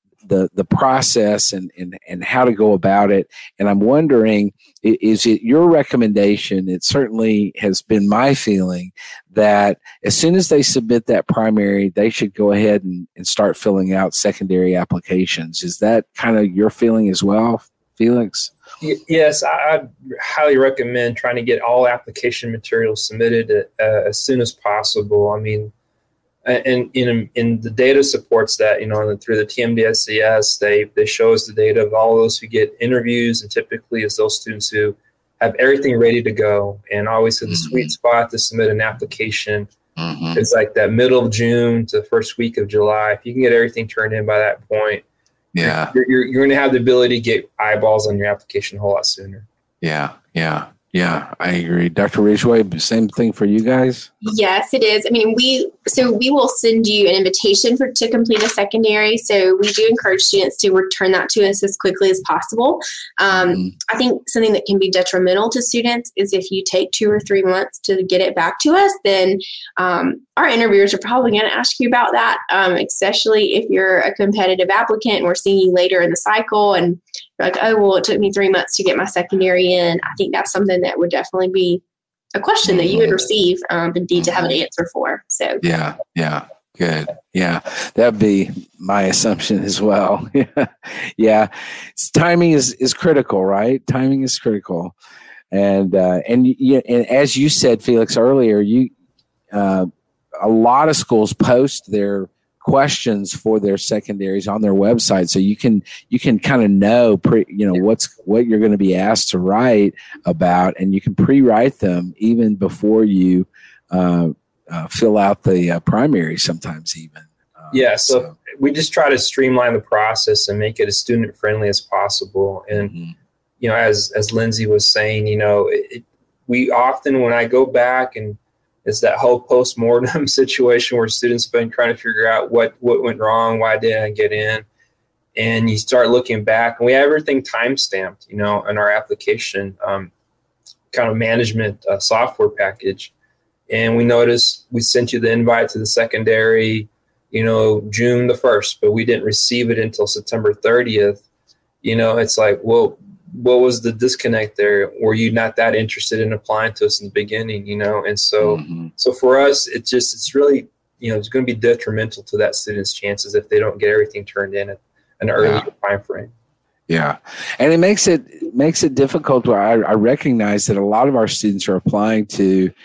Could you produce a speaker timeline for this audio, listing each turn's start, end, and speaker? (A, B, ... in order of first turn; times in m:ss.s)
0:00.2-0:18.5 A
0:18.8-0:25.7 B
0:26.4-0:39.7 B
0:37.5-0:37.9 A
0:40.0-0:40.4 A
0:40.3-0:45.0 B
0:45.5-0:45.9 A
0:45.6-0:49.5 B
0:49.8-0:54.1 A
0:54.2-1:21.8 C
1:03.3-1:03.7 A
1:22.4-1:25.6 C
1:22.7-1:23.2 A
1:24.2-1:24.5 A
1:25.6-1:35.0 A
1:35.5-1:38.9 A
1:39.5-1:39.9 A
1:40.4-1:58.3 A
1:57.7-2:02.9 B
2:02.8-2:03.1 A
2:03.6-2:14.6 B
2:15.4-2:20.1 B
2:20.9-2:23.1 B
2:23.7-2:31.2 B
2:31.8-2:46.3 B
2:38.4-2:38.9 A
2:45.4-2:45.7 A
2:46.9-2:52.7 A